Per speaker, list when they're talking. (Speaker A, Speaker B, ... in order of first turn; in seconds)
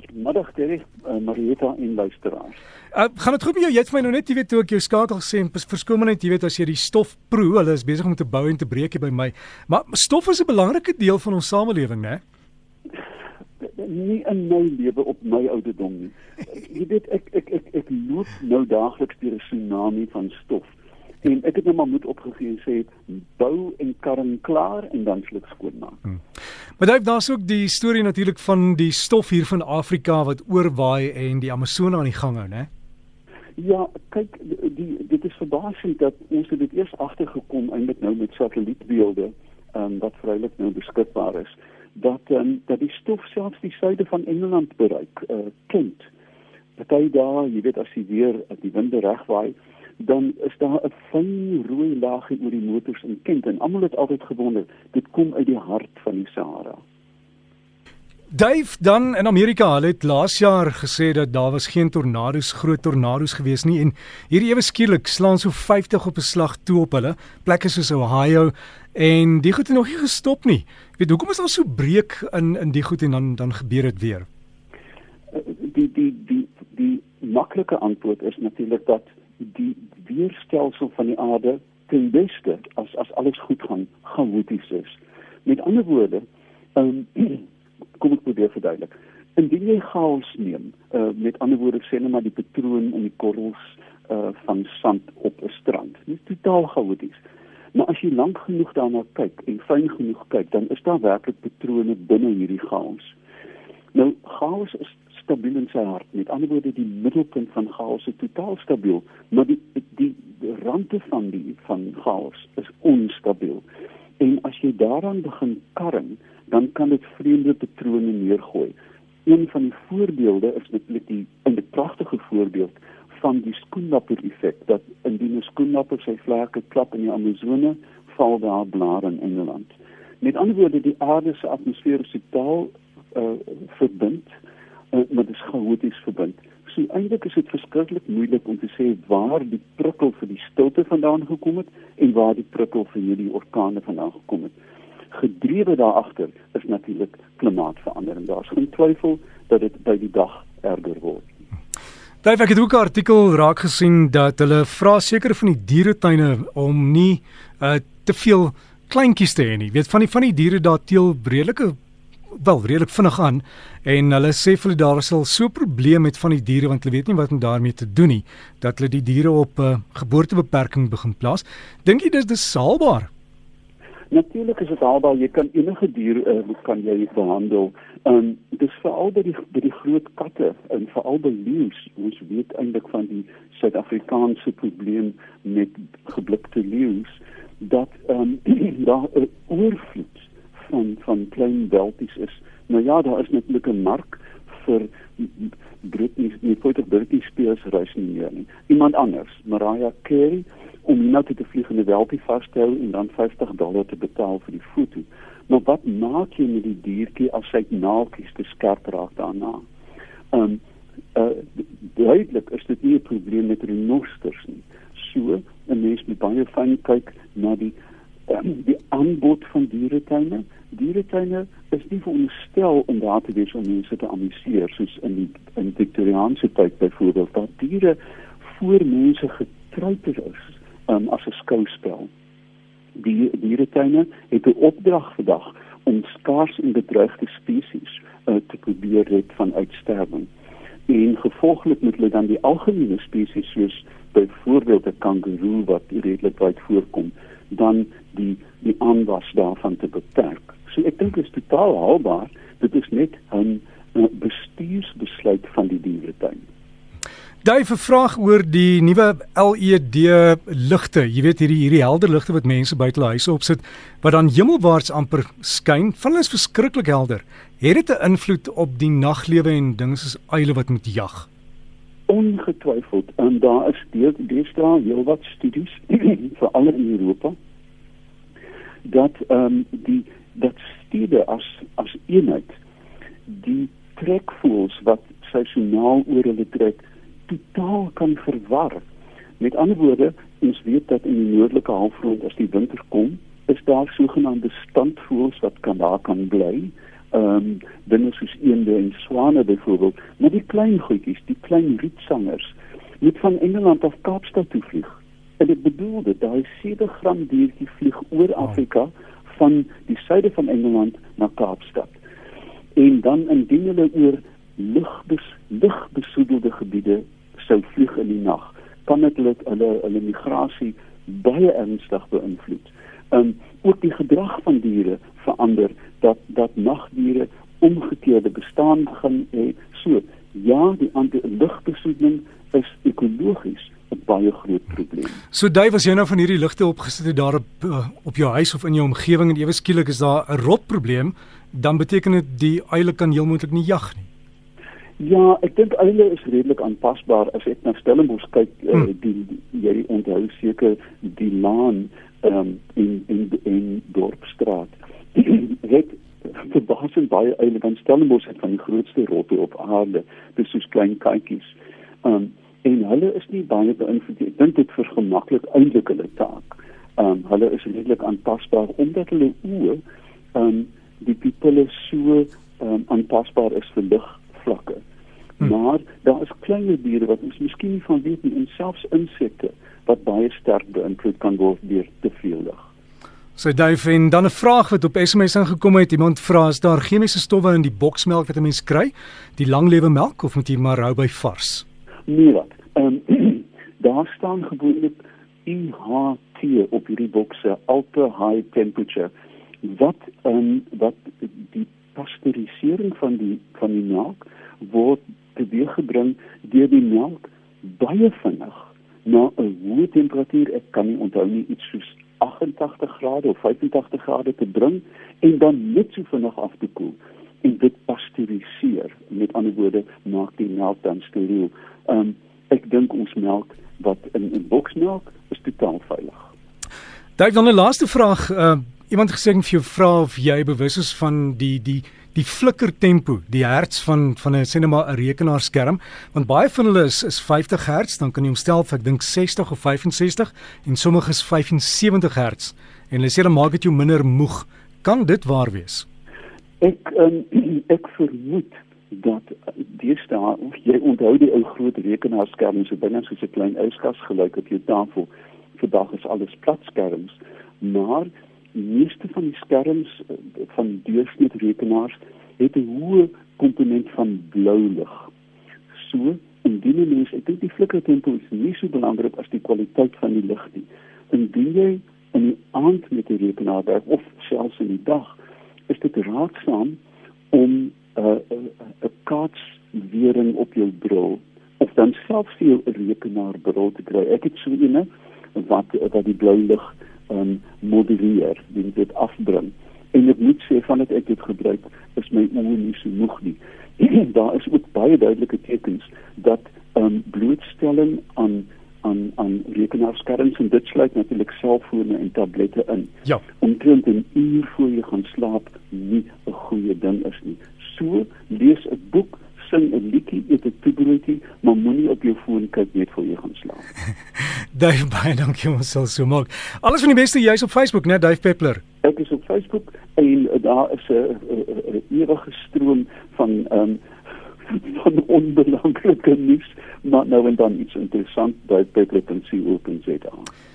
Speaker A: 0.1-2.6, 13.6-26.0, 33.6-46.1, 46.8-56.8, 75.3-86.2, 86.8-87.5, 88.0-97.2, 97.7-103.1, 103.9-113.7, 114.2-118.8, 119.3-134.3, 134.9-144.5, 145.1-151.3, 174.1-209.6, 210.3-210.6, 211.2-217.8, 218.3-232.1, 233.0-240.3, 240.9-256.4, 272.1-277.4, 278.9-282.5, 283.3-288.8, 289.4-312.0, 312.8-335.2, 345.0-369.8, 370.4-374.8, 375.4-382.7, 392.1-399.1, 399.6-426.3, 446.6-465.1, 465.8-475.1, 475.7-476.8, 477.3-513.6, 518.8-523.8, 524.5-530.3
Speaker B: 2.9-12.2, 26.8-32.7, 58.3-74.3, 152.2-161.8, 162.3-173.1, 257.4-271.3, 335.3-344.1, 383.4-391.6, 427.2-445.9, 514.5-518.6